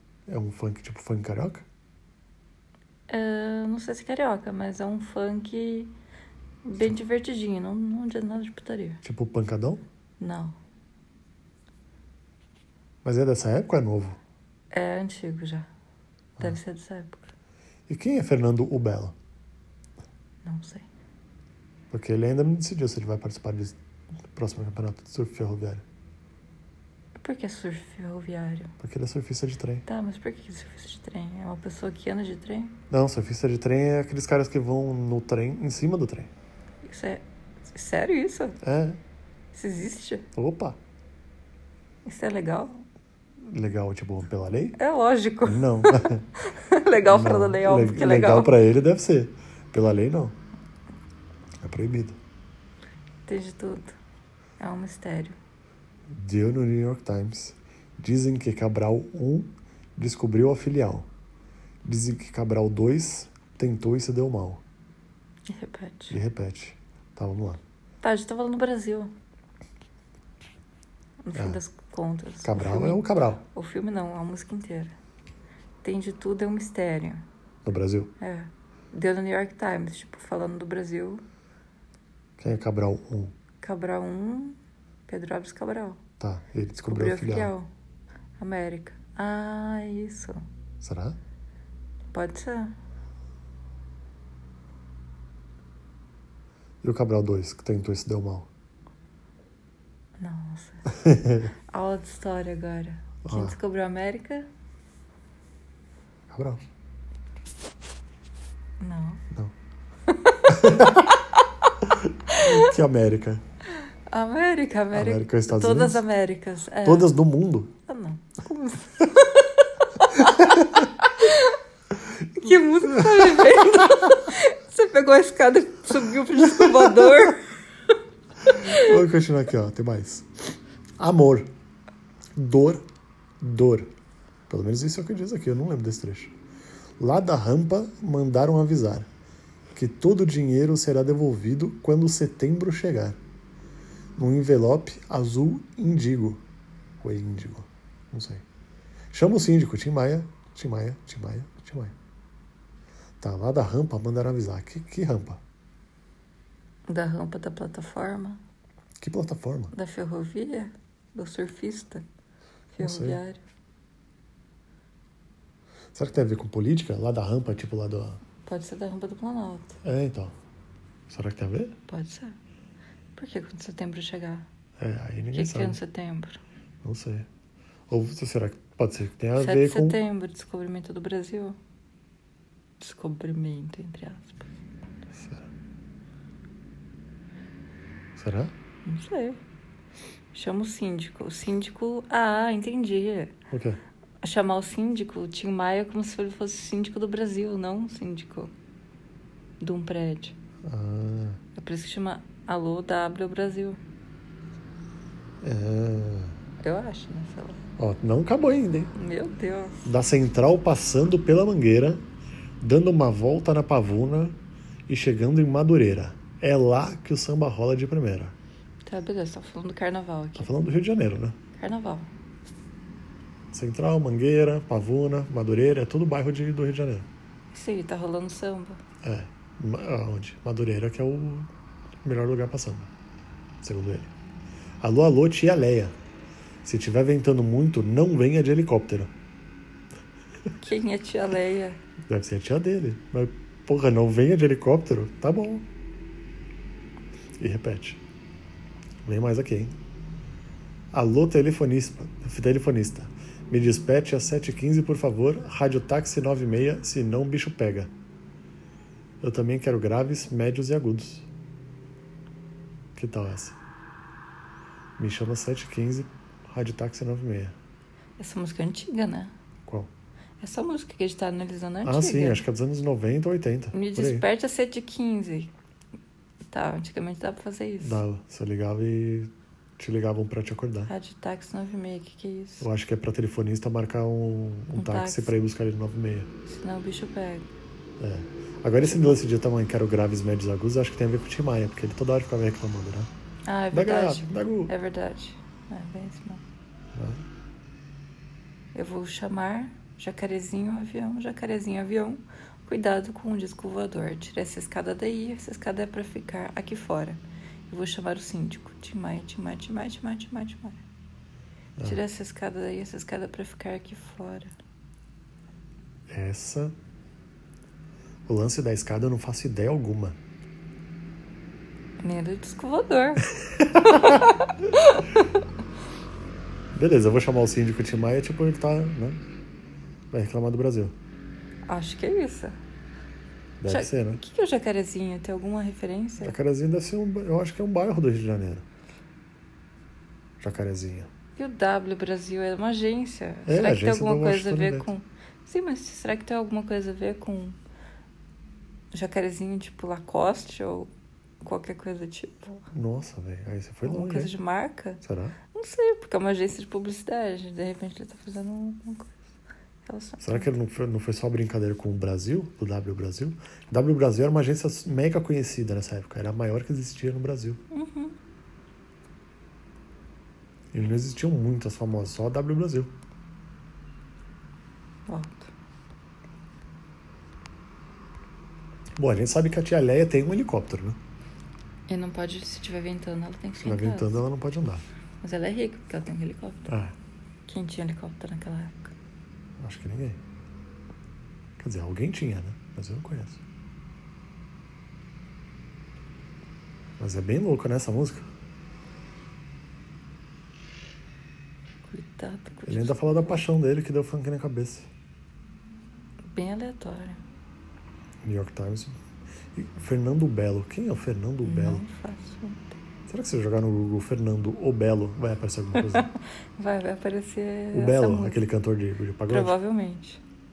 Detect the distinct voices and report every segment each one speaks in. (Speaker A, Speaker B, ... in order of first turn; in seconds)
Speaker A: 0.3-1.7, 9.0-9.8, 13.0-14.2, 17.9-19.1, 21.9-23.8, 24.3-25.8, 28.8-29.9, 32.9-36.3, 38.6-39.0, 40.4-40.8, 43.4-44.8, 45.4-46.2, 47.0-50.4, 51.6-52.2, 56.1-61.1, 61.8-64.6, 66.1-67.6, 71.3-71.6, 72.4-73.4, 77.7-78.1, 82.4-83.3, 86.2-87.5, 90.8-91.2, 96.8-98.5, 101.0-101.4, 103.2-103.6, 106.3-106.6, 110.5-111.1, 112.3-113.4, 114.9-116.0, 116.8-117.7, 120.4-120.7, 122.8-123.8, 126.6-127.1, 128.5-130.3, 131.0-131.5, 132.4-132.8, 133.4-133.9, 134.5-136.3, 137.0-139.1, 139.7-143.2, 144.2-146.4, 147.0-148.4, 149.1-151.9, 153.2-155.4, 159.0-159.7, 162.8-163.2, 165.9-168.2, 169.8-170.3, 171.1-171.7, 174.8-175.8, 176.8-177.3, 177.9-180.0, 185.2-185.5, 188.2-188.5, 193.5-193.8, 200.7-201.4, 205.4-206.4, 207.8-208.9, 209.8-212.0, 212.6-214.4, 214.9-218.3, 220.4-221.4, 223.5-227.1, 229.0-231.5, 232.0-232.9, 233.6-234.1, 234.8-235.9, 236.6-239.1, 242.1-245.7, 247.4-248.0, 249.1-249.8, 250.9-257.9, 259.2-261.3, 262.9-263.6, 265.0-267.6, 271.8-274.2, 277.8-280.9, 282.6-286.3, 288.0-293.1, 293.7-294.7, 296.9-297.2, 316.1-316.8, 318.3-320.2, 323.6-324.1, 326.7-329.2, 330.1-330.9, 333.6-334.2, 336.2-338.6, 340.4-341.1, 343.5-344.9, 352.7-354.3, 355.0-355.4, 360.2-367.6, 370.7-372.9, 379.0-381.0, 383.6-384.8, 386.7-386.9, 389.6-390.2, 391.6-393.4, 397.0-398.3, 402.7-404.9, 408.2-409.0, 409.6-411.8, 413.1-416.1, 417.7-419.6
Speaker B: 3.1-5.9, 6.7-9.0, 10.2-10.6, 14.7-15.7, 16.4-17.3, 20.4-20.9, 27.2-28.7, 29.9-32.8, 36.8-38.6, 39.5-40.3, 42.0-42.9, 44.8-48.6, 53.3-54.0, 54.6-55.4, 65.5-66.2, 68.0-69.1, 71.2-74.9, 75.8-77.2, 78.2-81.2, 83.6-86.0, 86.9-87.7, 88.4-90.4, 92.1-92.8, 100.2-100.9, 101.7-104.5, 108.8-109.2, 110.1-111.2, 112.3-112.7, 114.1-117.1, 117.9-121.6, 122.3-127.5, 128.5-129.0, 156.9-158.4, 159.7-162.1, 162.7-163.4, 168.4-169.8, 171.9-172.4, 173.2-174.5, 175.3-176.4, 179.4-181.6, 182.8-184.5, 188.8-189.4, 190.3-193.3, 194.2-198.5, 199.6-200.3, 201.6-203.8, 206.6-207.6, 208.9-209.9, 218.9-220.7, 221.6-222.1, 227.5-228.8, 240.6-241.8, 268.2-269.3, 270.4-272.4, 273.7-275.5, 276.5-278.0, 280.9-282.7, 284.8-285.3, 286.5-287.5, 288.8-289.2, 293.5-296.4, 298.7-310.8, 311.8-314.5, 322.0-323.3, 323.8-325.3, 331.7-332.6, 333.6-336.4, 341.4-347.6, 348.9-350.9, 351.4-352.7, 353.8-355.0, 355.5-359.1, 359.8-360.5, 367.7-368.2, 375.1-375.5, 381.9-384.2, 385.2-386.7, 387.5-388.9, 401.9-403.4, 406.3-407.2, 411.4-412.8, 415.8-418.4, 419.3-420.2